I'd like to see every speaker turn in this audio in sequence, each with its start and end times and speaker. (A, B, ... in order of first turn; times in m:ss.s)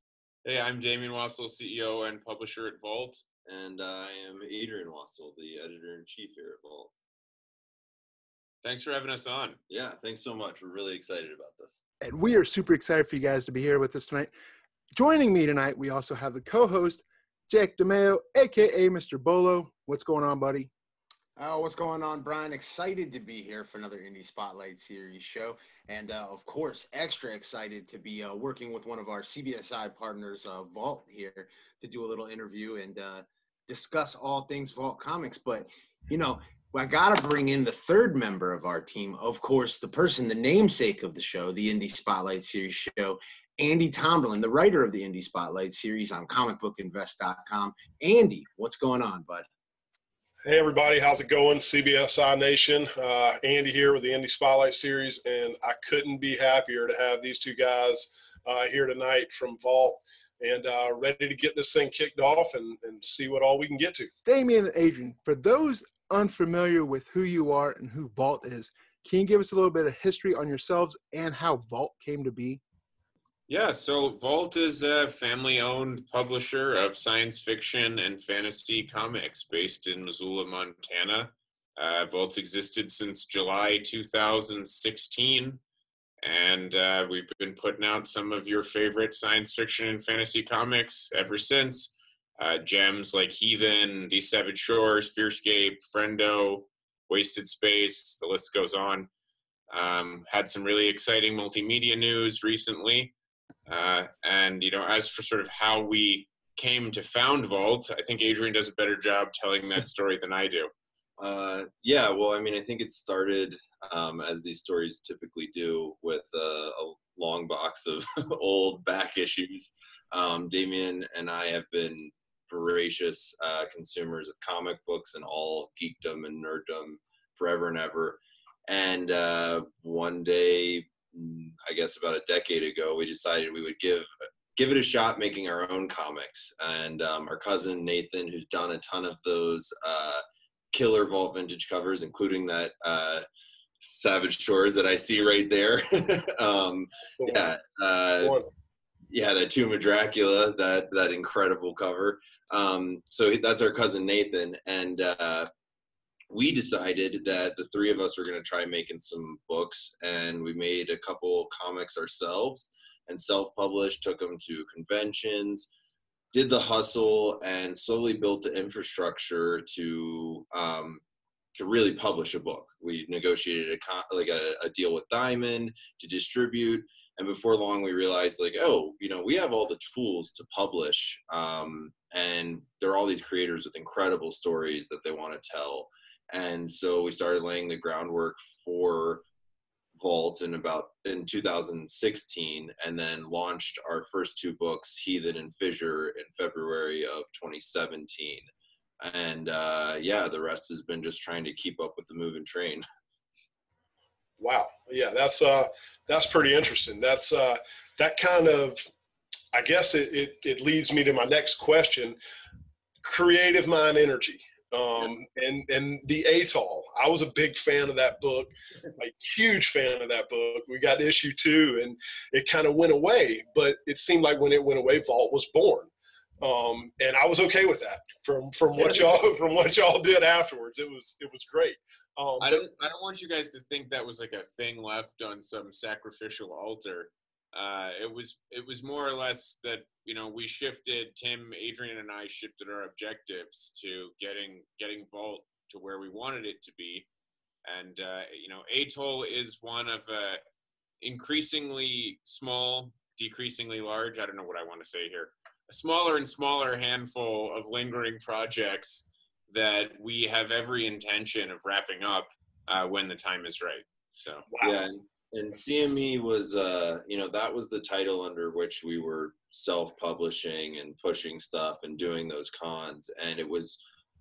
0:00.4-0:03.2 A
0:03.4-0:06.9 B
0:08.6-0:09.6 A
0:09.7-0:11.8 B
0:12.0-0:14.3 C
0:14.9-0:20.7 C
0:21.4-0:49.5 D
0:50.4-1:04.1 E
1:04.2-1:12.6 C
1:13.5-1:25.6 A
1:26.2-1:39.1 A
1:39.7-1:43.1 A
1:43.7-1:50.7 A
1:51.2-2:20.2 B
2:20.7-2:23.2 B
2:23.8-2:28.4 B
2:27.0-2:27.5 E
2:28.2-2:28.5 E
2:29.1-2:35.5 B
2:36.3-2:45.7 B
2:46.3-2:51.0 B
2:51.5-3:09.2 B
3:10.0-3:18.4 B
3:19.0-3:22.8 B
3:24.4-3:28.8 E
3:29.5-3:32.2 E
3:33.0-3:52.6 E
3:52.4-4:07.1 A
4:07.6-4:10.4 A
4:11.0-4:24.4 A
4:24.5-4:24.8 E
4:24.6-4:33.8 B